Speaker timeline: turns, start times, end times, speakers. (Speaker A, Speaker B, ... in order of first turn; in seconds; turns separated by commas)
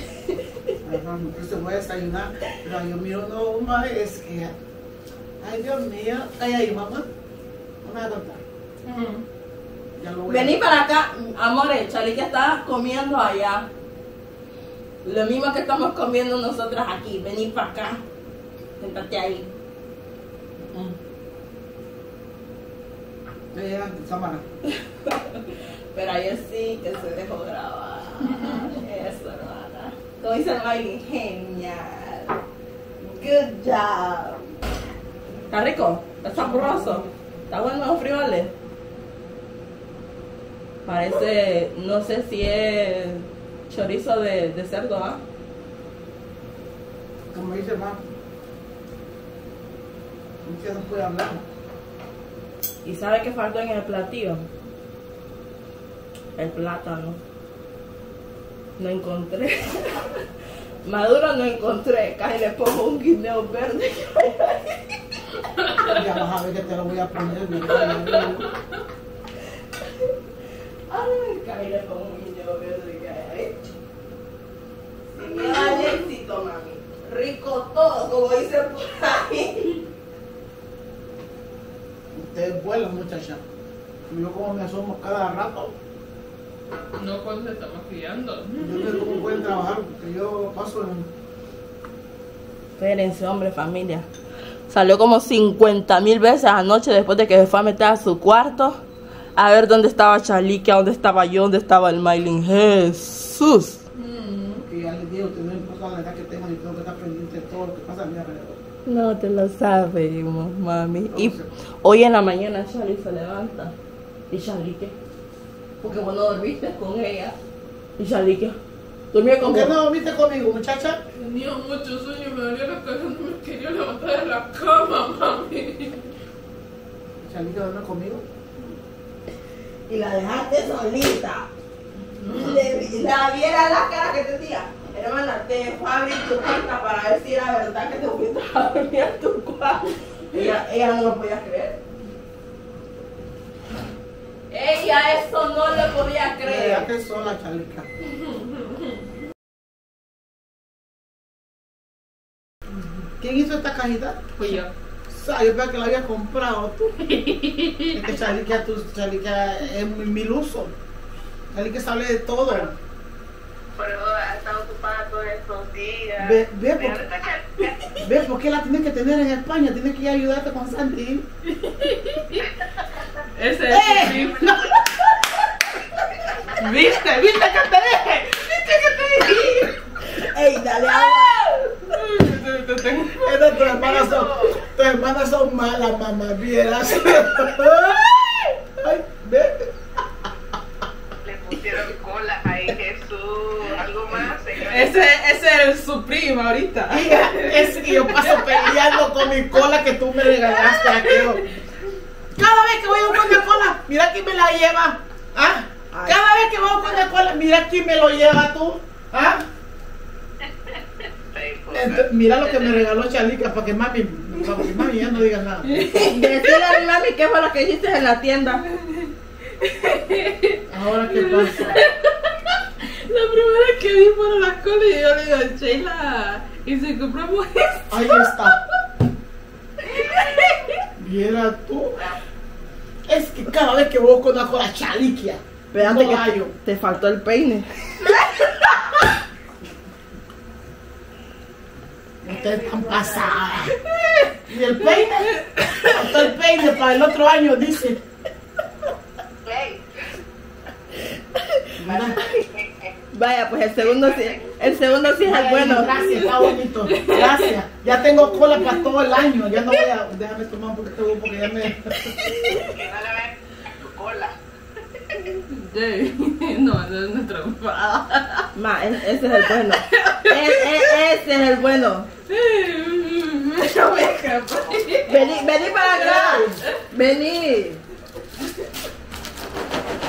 Speaker A: 0.3-0.8, Speaker B: 0.8-4.6, Speaker B: 5.4-7.1, Speaker B: 7.8-8.4, Speaker C: 8.9-9.2, Speaker B: 10.0-10.6, Speaker A: 10.3-13.7, Speaker A: 15.0-18.0, Speaker A: 18.8-19.5, Speaker B: 20.6-21.0, Speaker B: 23.5-24.4, Speaker A: 25.0-32.4, Speaker A: 33.0-34.4, Speaker A: 35.5-38.5, Speaker B: 36.6-37.0, Speaker A: 40.9-45.2, Speaker B: 47.3-48.0, Speaker B: 50.4-51.4, Speaker A: 52.8-54.5, Speaker A: 56.4-57.2, Speaker A: 58.8-60.2, Speaker A: 60.9-64.8, Speaker B: 65.8-68.5, Speaker C: 67.8-68.4, Speaker A: 69.8-70.1, Speaker A: 70.9-73.6, Speaker A: 75.1-79.8, Speaker C: 75.2-76.0, Speaker B: 82.1-83.4, Speaker B: 84.1-85.8, Speaker C: 87.0-88.9, Speaker B: 88.6-91.1, Speaker A: 92.8-94.1, Speaker A: 94.7-98.8, Speaker A: 99.4-103.8, Speaker C: 104.0-104.6, Speaker B: 104.6-108.6, Speaker A: 108.9-113.7, Speaker B: 111.1-111.5, Speaker A: 114.3-115.0, Speaker A: 115.8-117.4, Speaker A: 118.0-118.6, Speaker A: 119.1-119.8, Speaker B: 119.4-121.0, Speaker C: 121.1-126.1, Speaker B: 127.2-128.3, Speaker A: 129.9-131.5, Speaker A: 132.2-141.8, Speaker A: 144.5-146.9, Speaker B: 146.4-147.9, Speaker B: 153.2-157.0, Speaker C: 154.4-154.7, Speaker C: 157.1-158.0, Speaker B: 157.9-160.8, Speaker B: 161.5-162.8, Speaker D: 163.8-168.0, Speaker B: 166.2-167.0, Speaker B: 168.0-171.3, Speaker C: 171.5-172.5, Speaker C: 173.3-175.2, Speaker B: 173.7-174.3, Speaker D: 174.2-174.8, Speaker C: 176.6-179.8, Speaker A: 180.1-181.5, Speaker C: 181.2-183.4, Speaker B: 183.2-188.1, Speaker D: 183.6-184.6, Speaker B: 188.8-189.7, Speaker D: 191.2-195.0, Speaker C: 194.6-199.0, Speaker B: 196.9-201.5, Speaker C: 200.4-201.4, Speaker B: 202.4-209.5, Speaker A: 205.9-206.2, Speaker D: 210.4-212.8, Speaker B: 211.7-215.8, Speaker C: 215.6-216.8, Speaker A: 215.9-218.7, Speaker C: 218.8-228.5, Speaker B: 220.7-221.8, Speaker B: 227.9-228.6, Speaker D: 229.9-230.4, Speaker C: 229.9-230.8, Speaker B: 231.0-232.0, Speaker B: 233.1-236.5, Speaker A: 235.7-238.4, Speaker B: 242.2-243.8, Speaker D: 242.3-243.5, Speaker C: 244.0-244.3, Speaker B: 244.5-248.0, Speaker C: 244.9-246.2, Speaker D: 249.4-249.8, Speaker A: 251.4-252.4, Speaker B: 251.8-252.2, Speaker D: 252.3-252.9, Speaker A: 253.1-256.2, Speaker D: 253.8-255.0, Speaker B: 255.2-262.2, Speaker C: 256.2-257.5, Speaker C: 258.4-259.0, Speaker D: 262.4-264.4, Speaker D: 264.9-265.2, Speaker C: 265.5-268.5, Speaker A: 268.6-272.1, Speaker C: 269.6-270.9, Speaker C: 272.3-275.4, Speaker A: 275.1-277.8, Speaker B: 275.9-276.6, Speaker C: 276.1-276.8